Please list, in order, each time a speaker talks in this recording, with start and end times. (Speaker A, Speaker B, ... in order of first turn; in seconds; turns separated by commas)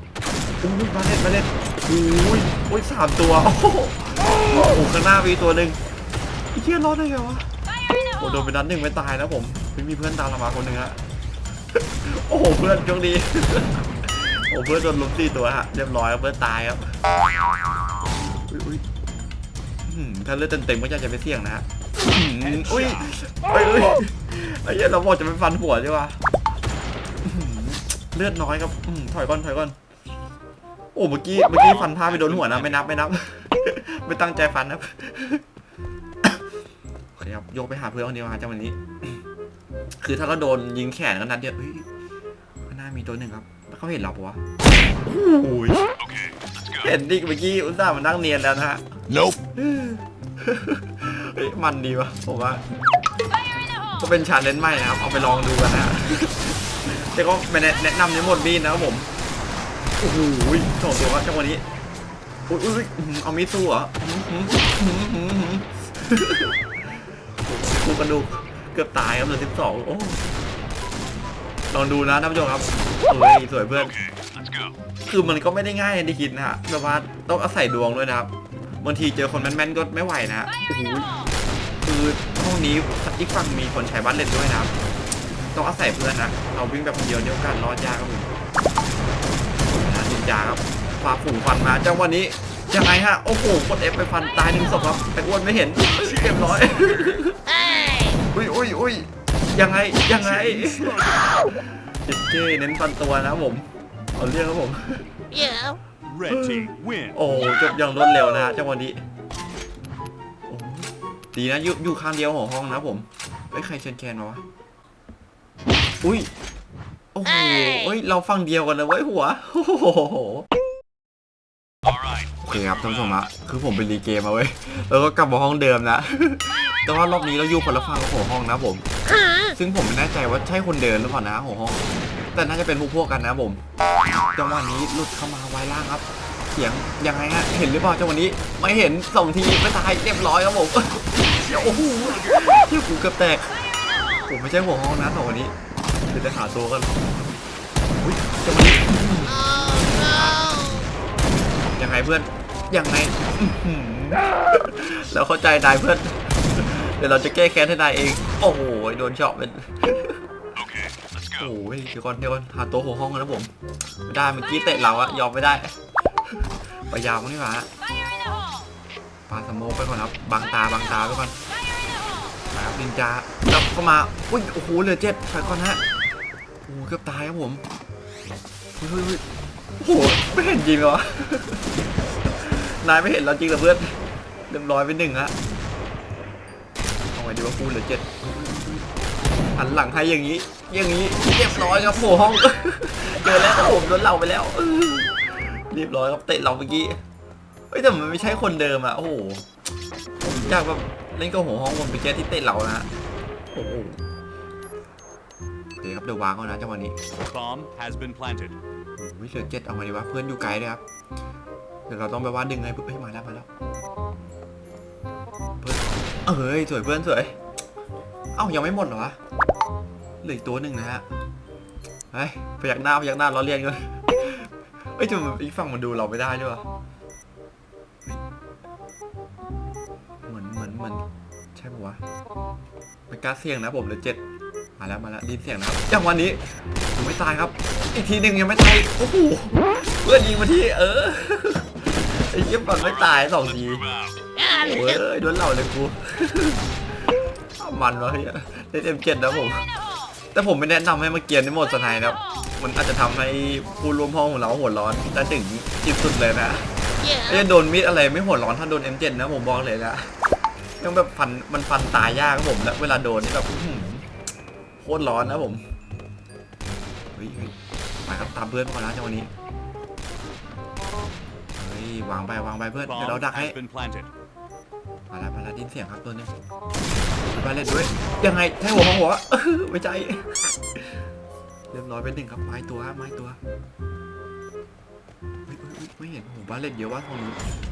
Speaker A: 0.6-5.8, Speaker A: 6.5-7.5, Speaker A: 8.2-11.0, Speaker A: 11.8-16.9, Speaker A: 18.5-18.8, Speaker A: 19.9-26.2, Speaker B: 22.3-23.1, Speaker A: 27.2-29.8, Speaker A: 30.9-35.5, Speaker B: 31.6-32.9, Speaker A: 37.2-39.2, Speaker A: 40.0-41.9, Speaker A: 42.6-44.4, Speaker A: 45.0-45.9, Speaker B: 46.0-46.4, Speaker A: 46.8-52.6, Speaker A: 54.0-59.1, Speaker A: 60.0-61.6, Speaker A: 62.5-70.3, Speaker A: 71.7-74.0, Speaker B: 74.3-74.7, Speaker A: 75.0-81.1, Speaker A: 81.8-84.7, Speaker A: 85.5-88.3, Speaker A: 89.7-97.4, Speaker A: 98.2-105.7, Speaker B: 106.1-107.2, Speaker A: 106.3-109.0, Speaker A: 110.5-114.4, Speaker A: 116.0-116.3, Speaker A: 117.1-120.5, Speaker A: 122.4-128.8, Speaker A: 129.5-131.8, Speaker A: 132.3-133.6, Speaker A: 134.3-145.5, Speaker A: 146.1-147.0, Speaker A: 148.0-150.9, Speaker A: 151.8-160.2, Speaker B: 160.6-161.1, Speaker A: 161.3-163.5, Speaker A: 164.1-165.8, Speaker A: 166.3-167.7, Speaker A: 169.3-171.3, Speaker A: 172.5-175.8, Speaker A: 176.7-177.6, Speaker A: 178.8-179.2, Speaker A: 179.8-181.7, Speaker A: 182.2-185.3, Speaker A: 187.1-188.9, Speaker A: 189.5-197.0, Speaker A: 197.7-199.5, Speaker A: 200.2-202.9, Speaker A: 203.5-204.0, Speaker A: 205.8-206.9, Speaker B: 207.3-208.6, Speaker A: 209.0-210.8, Speaker A: 211.9-213.5, Speaker A: 215.6-217.4, Speaker A: 218.3-219.2, Speaker A: 220.2-221.0, Speaker A: 222.1-226.6, Speaker A: 230.3-231.0, Speaker A: 231.6-232.0, Speaker A: 233.1-234.2, Speaker A: 234.8-243.9, Speaker A: 244.5-246.8, Speaker A: 247.6-249.7, Speaker A: 250.3-260.1, Speaker A: 260.8-264.1, Speaker A: 264.8-265.6, Speaker A: 267.1-269.3, Speaker A: 271.6-273.6, Speaker B: 272.8-274.1, Speaker A: 275.1-276.3, Speaker A: 277.3-281.1, Speaker A: 281.7-283.4, Speaker A: 285.5-287.4